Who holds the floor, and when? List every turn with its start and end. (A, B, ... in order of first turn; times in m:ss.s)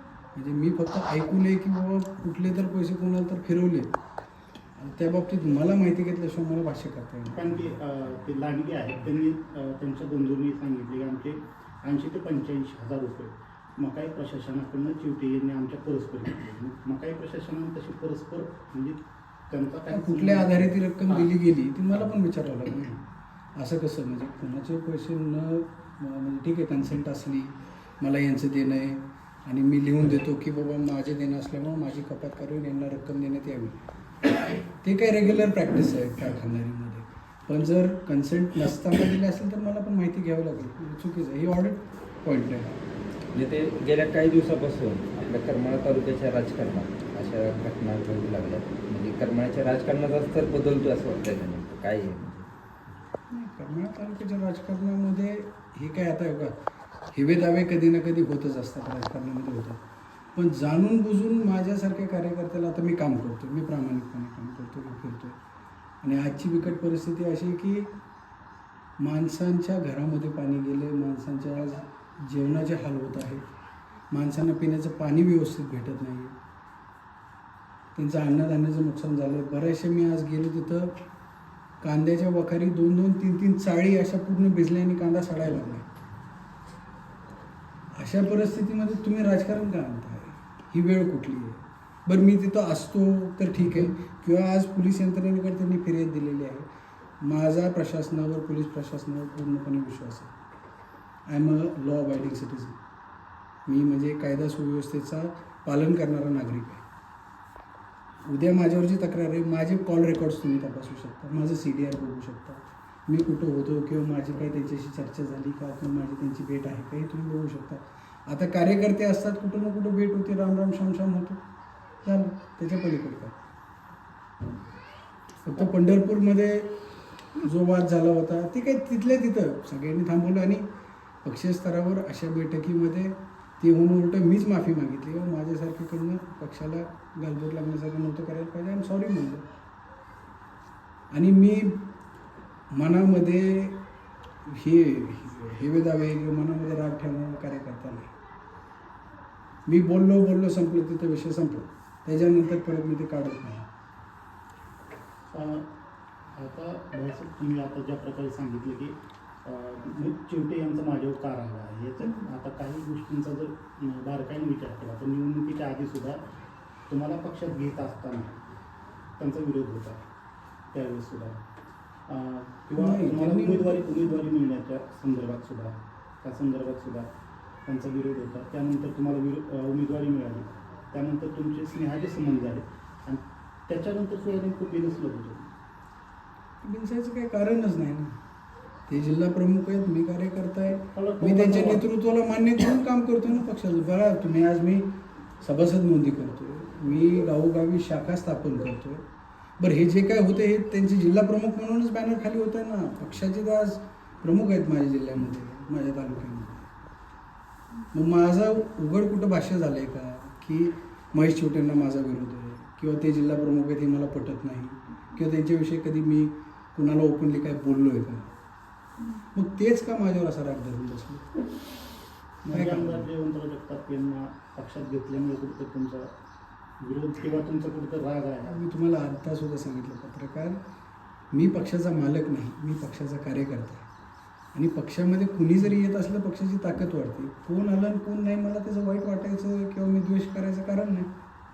0:00.4-0:03.9 A
0:04.8-0:07.4 A
0:07.4-0:20.7 B
0:19.9-0:23.0 A
0:23.6-0:33.8 A
0:34.8-0:42.7 A
0:43.3-0:52.5 C
0:53.3-0:56.5 A
0:57.1-0:59.8 A
1:00.4-1:05.4 A
1:06.0-1:07.9 A
1:09.0-1:13.4 A
1:14.1-1:16.3 A
1:18.0-1:21.0 A
1:21.8-1:25.9 A
1:28.0-1:36.7 A
1:37.2-1:40.3 A
1:41.3-1:42.8 A
1:43.7-1:46.8 A
1:48.3-2:01.4 A
2:02.0-2:03.4 A
2:05.4-2:06.7 A
2:07.4-2:10.7 A
2:11.2-2:19.4 A
2:21.1-2:21.8 A
2:22.8-2:23.8 A
2:24.5-2:28.1 A
2:29.7-2:33.6 A
2:35.3-2:35.7 B
2:36.4-2:46.2 B
2:46.9-2:48.4 B
2:49.2-2:50.0 B
2:50.7-2:51.4 B
2:52.1-2:57.1 B
2:52.8-2:53.8 A
2:57.6-3:05.5 B
3:06.6-3:08.2 A
3:08.9-3:14.9 A
3:11.0-3:11.8 B
3:15.4-3:19.0 A
3:19.6-3:26.7 A
3:27.9-3:38.4 A
3:39.4-3:41.2 A
3:42.5-3:43.1 A
3:42.5-3:46.1 B
3:46.8-3:48.6 B
3:48.5-3:50.6 A
3:51.3-3:53.9 A
3:54.5-4:01.1 A